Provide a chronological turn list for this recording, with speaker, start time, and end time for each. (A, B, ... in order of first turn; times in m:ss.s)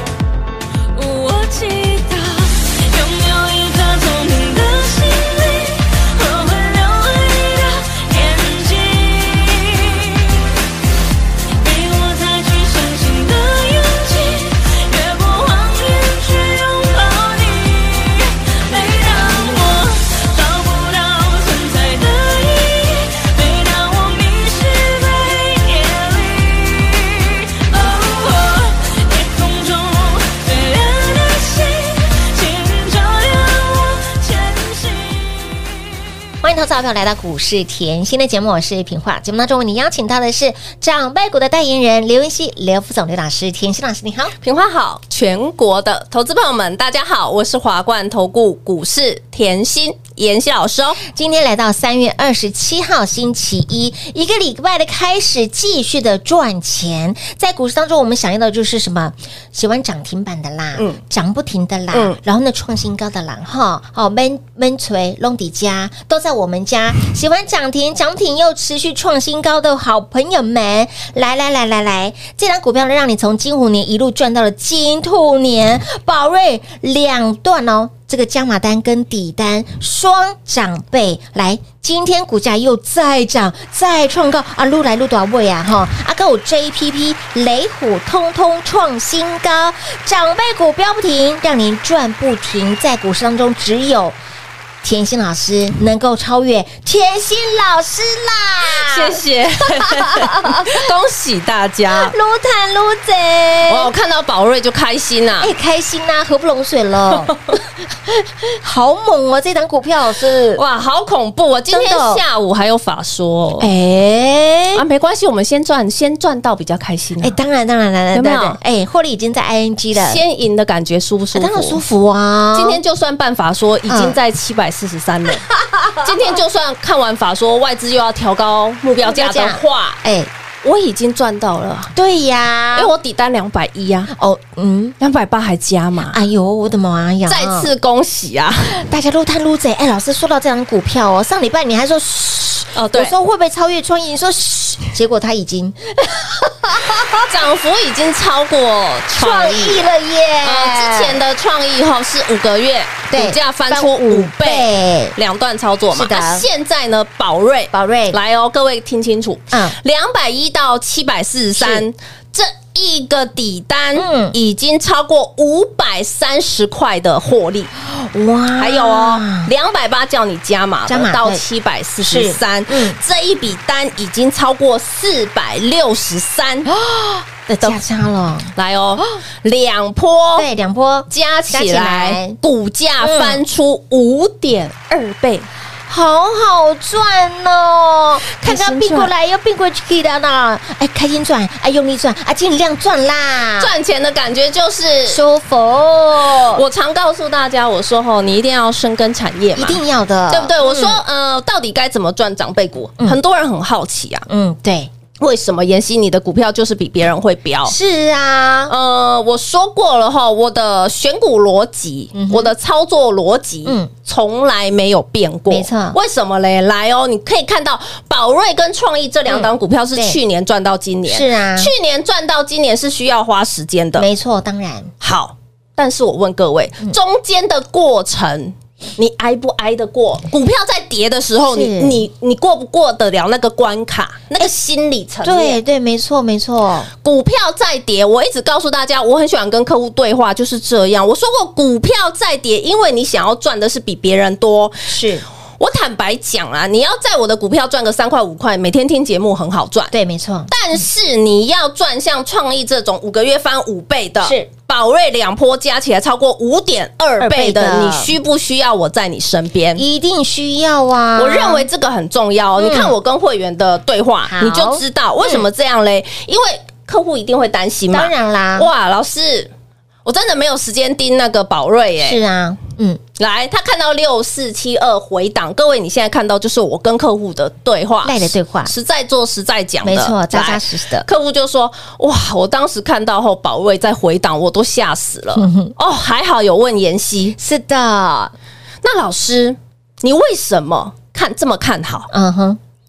0:00.9-0:10.4 A
0:11.6-0:35.4 A
0:36.4-0:44.3 B
0:44.4-0:51.0 C
0:51.0-1:34.2 B
1:01.9-1:02.2 C
1:34.8-1:40.8 B
1:38.7-1:42.1 C
1:41.9-1:43.9 B
1:43.7-1:45.5 C
1:45.4-1:50.6 B
1:50.5-1:53.7 C
1:51.7-1:52.2 B
1:53.6-1:54.8 B
1:54.7-1:57.4 C
1:57.2-2:00.2 B
1:58.1-1:58.6 C
1:59.9-2:01.8 C
2:01.3-2:02.8 B
2:02.5-2:05.5 C
2:03.9-2:04.2 B
2:05.5-2:06.3 B
2:06.0-2:10.0 C
2:09.0-2:10.3 B
2:10.6-2:11.9 C
2:11.9-2:12.9 B
2:12.7-2:14.1 C
2:14.1-2:15.0 B
2:15.0-2:16.2 C
2:16.1-2:17.7 B
2:17.3-2:18.8 C
2:18.7-2:27.3 B
2:22.7-2:23.1 C
2:27.3-2:29.8 C
2:29.1-2:31.2 B
2:30.4-2:47.7 C
2:33.1-2:35.2 B
2:35.9-2:36.4 B
2:37.7-2:38.2 B
2:39.5-2:39.8 B
2:41.6-2:41.8 B
2:43.9-2:44.4 B
2:47.8-2:49.5 B
2:48.6-2:56.7 C
2:50.9-2:51.4 B
2:52.0-2:53.0 B
2:56.7-2:58.5 B
2:58.5-3:00.5 C
3:00.4-3:02.4 B
3:01.1-3:05.5 C
3:03.0-3:03.4 B
3:05.9-3:13.7 B
3:08.4-3:09.1 C
3:13.6-3:15.2 C
3:15.1-3:16.6 B
3:16.3-3:24.2 C
3:19.5-3:21.0 B
3:24.3-3:24.9 B
3:25.2-3:27.7 C
3:27.6-3:28.7 B
3:28.7-3:44.1 C
3:32.1-3:32.5 B
3:33.6-3:33.9 B
3:35.5-3:36.0 B
3:39.3-3:40.2 B
3:41.0-3:41.7 B
3:44.0-3:44.9 B
3:45.0-3:55.6 C
3:51.4-3:52.0 B
3:55.2-3:56.9 B
3:57.0-4:05.0 C
4:04.9-4:05.2 B
4:05.6-4:09.9 C
4:09.9-4:10.8 B
4:10.5-4:19.8 C
4:14.2-4:14.5 B
4:17.2-4:18.1 B
4:19.8-4:21.7 B
4:21.2-4:29.5 C
4:22.6-4:22.9 B
4:24.2-4:25.4 B
4:27.9-4:28.7 B
4:30.0-4:32.2 C
4:32.0-4:33.0 B
4:33.2-4:47.4 C
4:38.0-4:38.7 B
4:39.8-4:41.1 B
4:45.3-4:45.7 B
4:47.4-4:48.3 B
4:48.8-4:52.1 C
4:52.1-4:52.6 B